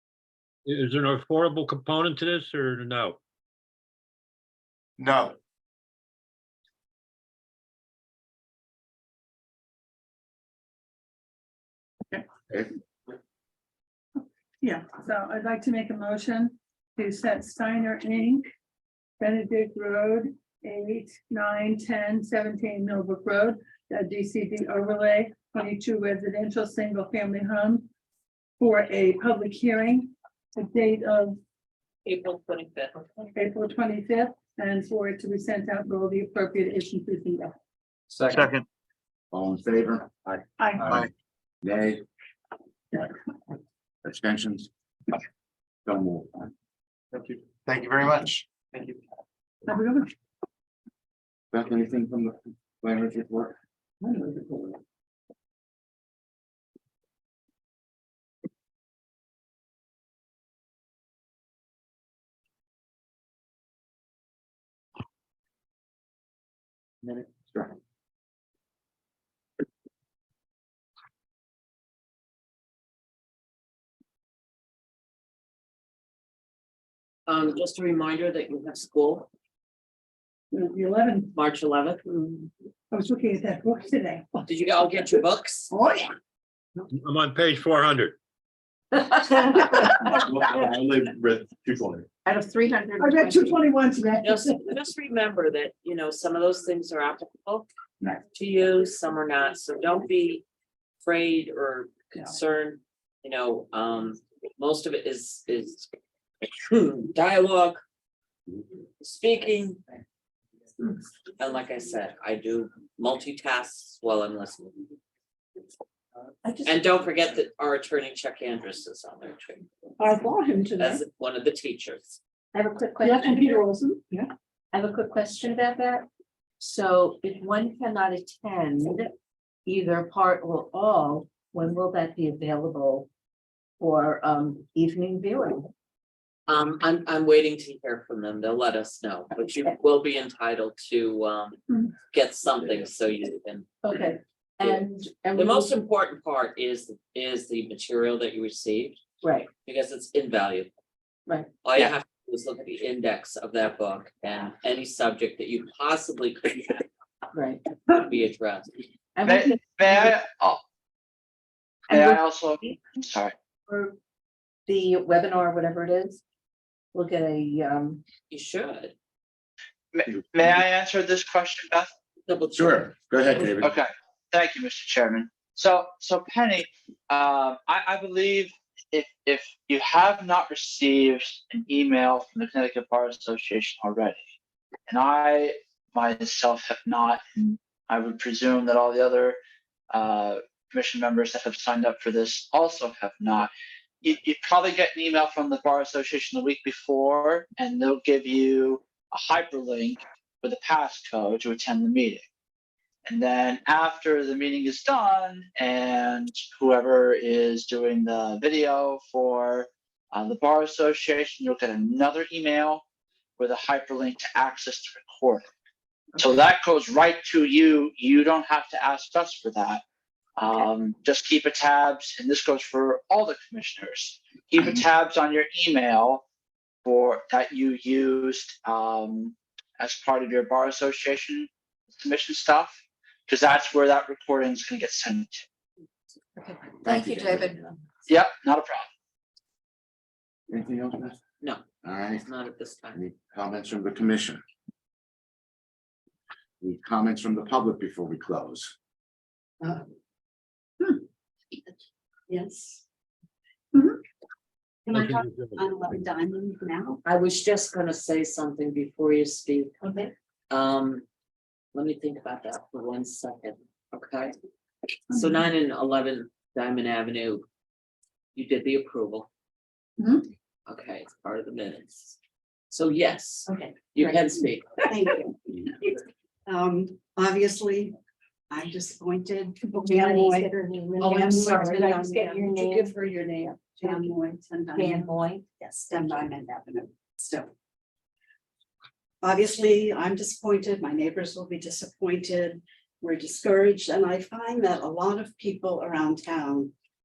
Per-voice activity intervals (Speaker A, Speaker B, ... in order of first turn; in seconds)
Speaker A: 0.7-3.2, 86.9-88.2, 254.9-255.6
Speaker B: 5.0-5.3, 47.2-48.4, 90.2-92.1
Speaker C: 14.6-18.4, 19.2-27.9, 28.6-31.4, 33.4-37.5, 40.6-40.9, 49.7-50.1, 80.5-81.3, 82.9-84.4, 85.7-86.1, 93.0-94.5, 123.0-124.0
Speaker D: 32.0-33.3, 77.3-79.3, 81.3-82.0, 84.5-85.7, 94.2-97.7, 98.3-100.4, 101.0-105.9, 106.4-107.8, 109.0-109.8, 111.4-114.8, 116.7-119.7, 120.8-122.2, 136.5-143.8, 145.3-149.0, 149.6-150.7, 151.6-156.9, 157.8-158.8, 168.3-168.9, 172.3-172.8, 173.3-173.7, 237.0-237.4, 242.2-243.0, 257.1-259.8, 260.5-261.1, 261.7-264.3, 265.1-267.4, 268.4-269.3, 270.7-272.2, 272.7-274.7
Speaker E: 39.3-41.0, 41.6-42.0, 44.0-44.7, 45.9-46.5, 51.5-53.6, 172.5-173.7, 240.5-241.2, 241.8-242.3, 242.9-244.4, 246.6-248.7
Speaker F: 89.0-90.2, 92.3-93.6, 122.5-123.7, 124.7-126.1, 126.6-129.1, 129.7-133.1, 133.8-135.7, 143.8-145.8, 149.2-149.5, 151.3-151.6, 157.3-157.8, 159.2-160.2, 161.9-162.8, 163.7-164.0, 164.7-166.2, 166.9-168.0, 236.4-237.7, 259.8-260.1, 279.9-284.1, 284.7-285.4
Speaker G: 120.0-121.0, 252.3-252.8, 254.9-257.0, 274.9-277.9, 278.5-282.9, 283.8-287.5, 289.2-296.7
Speaker H: 159.3-160.6, 161.9-163.3, 169.9-171.9, 173.6-184.2, 184.9-189.4, 189.9-193.5, 194.0-202.2, 203.1-212.8, 213.4-215.5, 216.2-219.8, 220.4-226.2, 226.8-235.4, 238.1-238.9